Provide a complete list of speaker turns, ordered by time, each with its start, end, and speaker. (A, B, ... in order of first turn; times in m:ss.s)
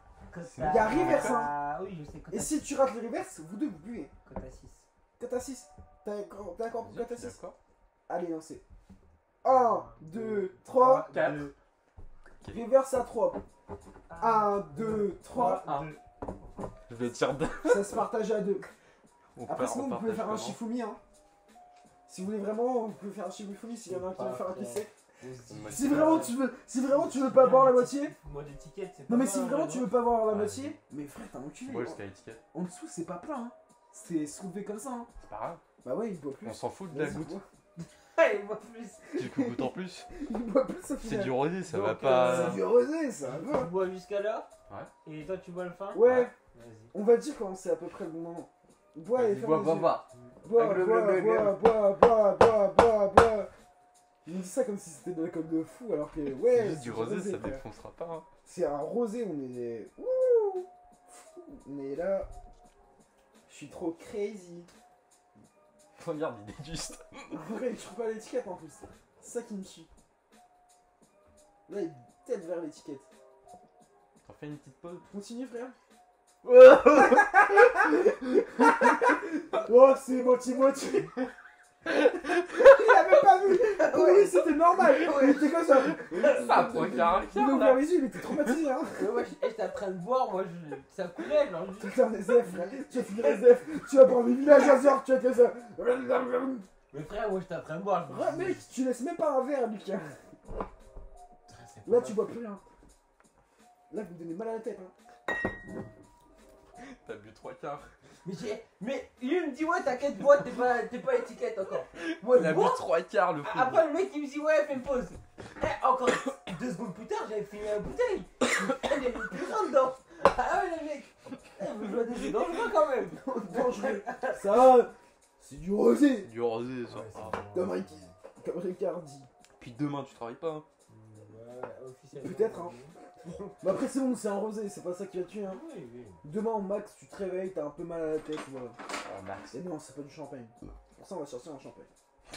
0:00.3-0:02.7 A
0:00.4-0:01.4 B
0:00.6-0:01.5 C
0:02.3-0:04.1 C
0:04.3-0:04.9 A
0:05.2-0:07.4 C
0:06.8-0:07.6 B
0:08.1-0:08.6 C
0:09.4-0:11.1 C
0:09.5-0:11.5 A
0:11.1-0:11.5 B
0:12.5-0:13.4 C
0:14.1-0:16.0 A
0:14.2-0:15.7 C
0:15.5-0:15.9 B
0:16.9-0:18.0 B
0:17.6-0:18.7 C
0:19.4-0:20.6 B
0:19.5-0:21.0 C
0:22.1-0:24.9 C
0:23.9-0:29.9 A
0:25.5-0:26.4 B
0:25.7-0:28.1 C
0:29.1-0:32.0 C
0:30.3-0:30.8 B
0:31.6-0:32.4 B
0:32.5-0:35.1 C
0:35.2-0:35.6 B
0:35.8-0:37.4 C
0:36.4-0:37.4 B
0:37.8-0:39.1 A
0:39.2-0:40.1 B
0:39.2-0:43.7 C
0:41.0-0:42.6 B
0:42.0-0:42.6 A
0:43.2-0:44.5 A
0:45.0-0:46.9 A
0:45.9-0:46.4 C
0:46.0-0:46.3 B
0:46.9-0:53.5 C
0:49.1-0:51.7 B
0:54.2-0:57.6 C
0:56.3-0:58.3 B
0:58.4-1:02.3 C
1:03.5-1:04.7 C
1:06.0-1:07.4 B
1:07.3-1:09.9 C
1:11.7-1:13.1 C
1:14.2-1:15.0 B
1:15.1-1:15.8 C
1:16.4-1:17.3 B
1:17.0-1:21.1 C
1:22.5-1:29.1 C
1:23.2-1:25.5 A
1:26.0-1:28.6 B
1:28.9-1:33.2 A
1:31.8-1:36.7 C
1:36.9-1:38.6 A
1:38.1-1:40.2 C
1:41.5-1:42.3 A
1:41.9-1:42.6 C
1:43.9-1:44.9 C
1:46.8-1:47.9 B
1:48.2-1:52.8 A
1:52.1-1:53.8 B
1:53.4-2:04.6 A
2:03.2-2:06.3 C
2:06.2-2:07.4 B
2:06.9-2:08.1 A
2:07.5-2:09.3 C
2:09.6-2:10.7 B
2:10.9-2:13.5 A
2:12.2-2:12.8 C
2:13.5-2:15.6 C
2:15.4-2:16.2 A
2:16.2-2:18.8 C
2:19.0-2:19.6 B
2:19.5-2:21.9 C